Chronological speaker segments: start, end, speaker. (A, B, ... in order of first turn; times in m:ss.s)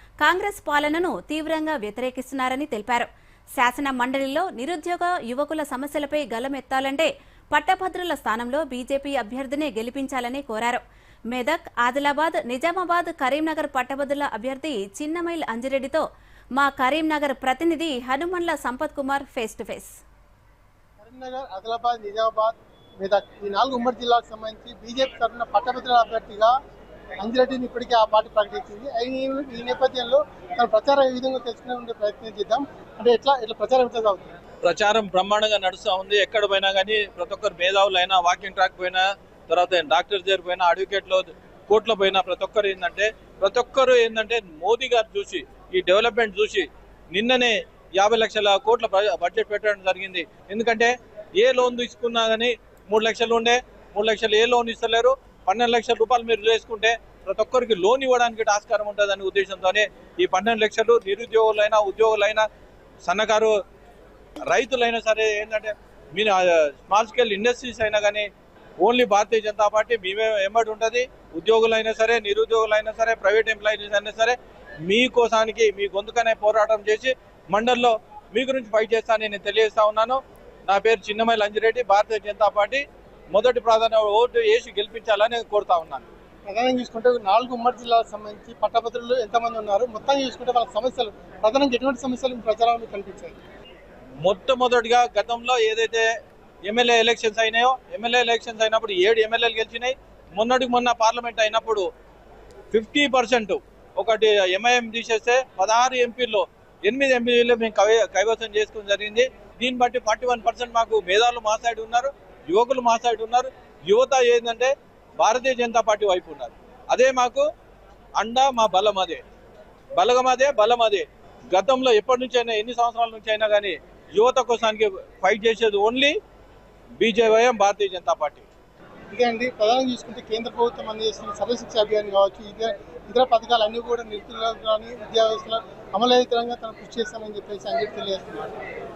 0:00.2-0:03.1 A
0:03.6-0:16.0 A
0:16.6-0:20.0 A
0:21.0-0:26.5 B
0:27.2-0:34.4 B
0:34.6-1:02.4 C
1:03.0-1:03.5 C
1:04.5-1:08.3 C
1:08.8-1:22.8 C
1:23.3-1:26.1 C
1:26.4-1:33.4 B
1:34.2-1:36.0 C
1:36.6-1:41.9 C
1:42.7-1:57.4 C
1:58.2-1:59.2 C
2:00.0-2:06.2 C
2:07.0-2:08.4 C
2:09.1-2:18.5 B